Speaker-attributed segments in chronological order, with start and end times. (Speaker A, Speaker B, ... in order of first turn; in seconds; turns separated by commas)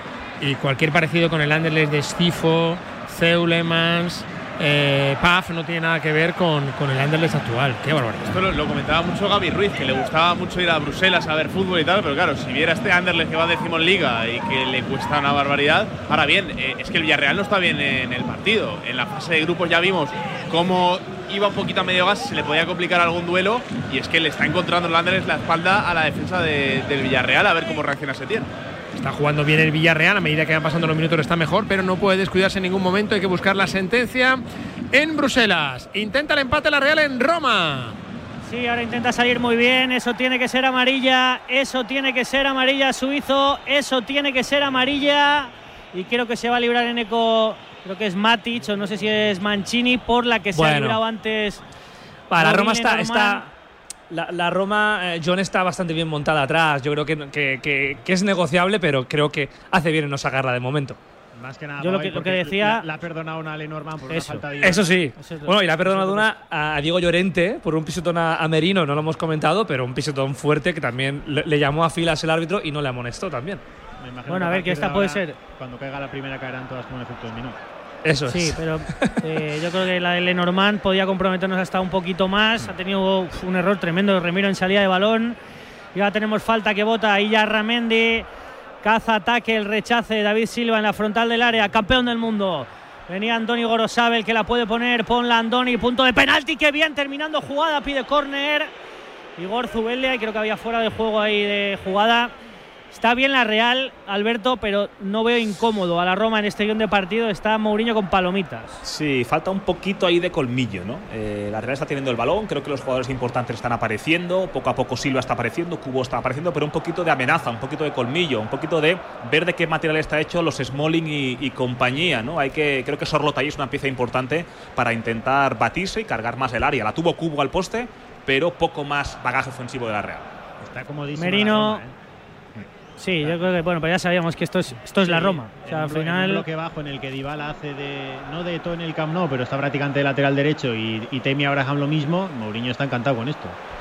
Speaker A: 0.4-8.3, Speaker B: 8.2-28.5, Speaker A: 29.0-38.0, Speaker C: 38.5-51.6, Speaker D: 50.5-51.0, Speaker D: 52.3-53.5, Speaker C: 52.4-53.5, Speaker D: 54.1-61.0, Speaker E: 61.4-65.0, Speaker C: 61.8-62.9, Speaker C: 64.1-64.5, Speaker D: 64.6-73.6, Speaker C: 65.2-66.3, Speaker E: 74.0-77.6, Speaker C: 74.3-75.3, Speaker D: 78.0-79.1, Speaker C: 78.3-85.4, Speaker C: 85.9-88.3, Speaker C: 88.8-98.7, Speaker C: 99.4-102.3, Speaker C: 102.9-108.8, Speaker F: 108.8-130.3, Speaker E: 130.6-132.0, Speaker C: 131.2-131.8, Speaker C: 133.0-136.4, Speaker E: 135.0-143.6